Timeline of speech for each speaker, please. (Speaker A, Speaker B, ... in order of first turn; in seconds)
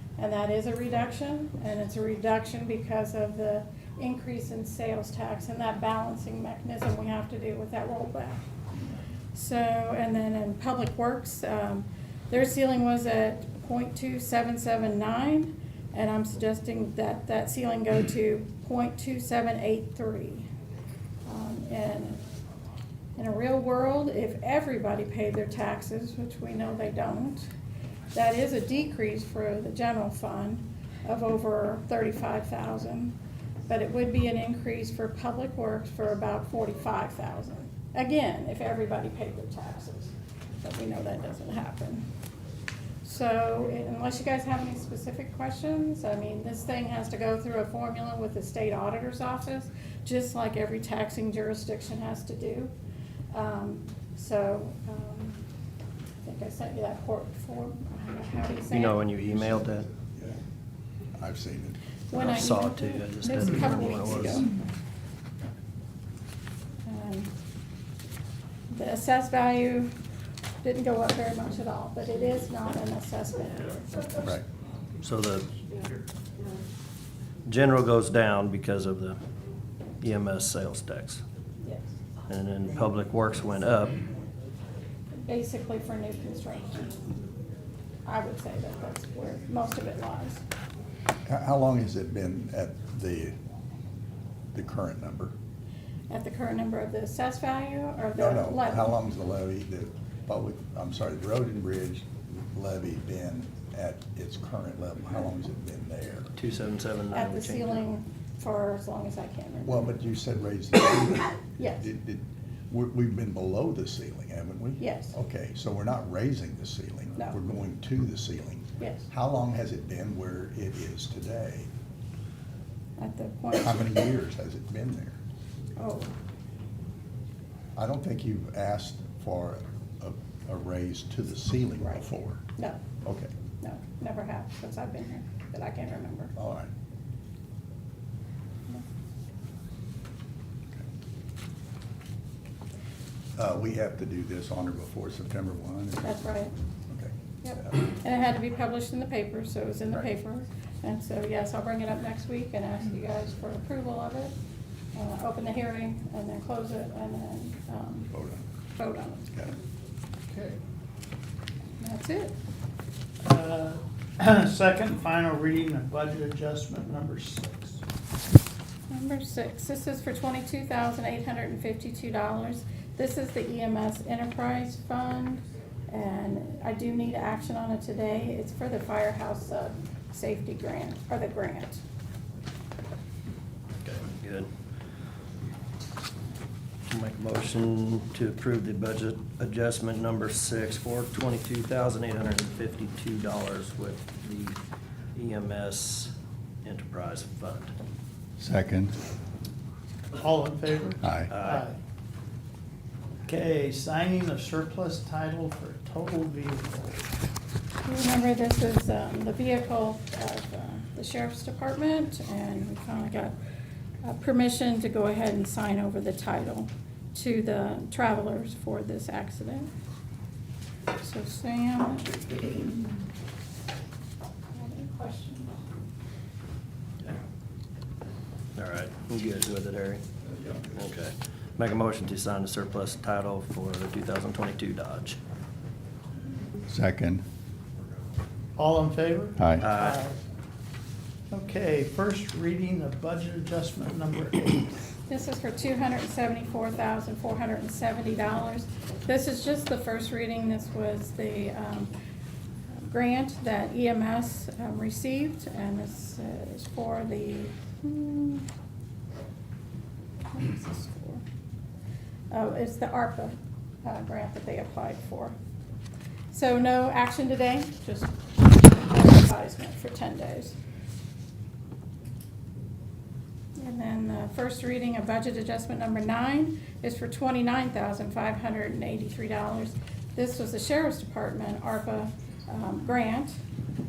Speaker A: 0.2-8.4, 9.3-20.5, 21.3-22.2, 23.2-27.5, 28.1-33.2, 33.7-42.0, 43.0-52.7, 53.3-55.4, 56.2-59.0, 62.1-64.5, 66.8-67.3, 68.7-69.9, 70.6-74.2, 85.3-87.0, 88.1-90.4, 96.1-98.9, 107.1-110.0, 111.6-111.9, 114.8-115.2, 118.8-119.0, 123.0-123.9, 125.8-126.1, 132.6-132.8, 133.6-136.3, 146.0-146.5, 147.4-154.4, 154.9-158.1, 158.8-159.6, 161.8-162.3, 168.9-181.8, 207.8-213.3, 214.0-219.7, 221.0-223.0, 224.5-225.5, 245.1-251.9, 252.8-258.5, 260.3-261.2, 262.3-265.4, 266.3-270.6, 273.6-283.4
Speaker B: 58.7-59.9, 62.1-64.5, 75.0-75.5, 77.5-79.2, 80.0-81.2, 82.3-84.0, 106.4-107.8, 183.8-184.5, 186.9-194.6, 195.1-196.1, 196.6-197.7, 201.3-201.7, 228.6-230.0, 230.6-235.2, 239.6-240.0
Speaker C: 61.2-61.8, 74.2-74.4, 91.3-93.3, 94.5-95.3, 98.2-106.3, 109.7-121.7, 123.6-125.2, 127.8-132.4, 133.0-133.3, 136.4-136.7, 143.4-146.1, 146.9-147.7, 158.1-158.4, 198.4-198.9, 201.0-201.3, 236.7-237.2, 239.4-239.7
Speaker D: 160.3-160.6, 163.2-167.8, 200.1-201.8, 203.3-207.1, 238.6-240.2, 241.3-244.8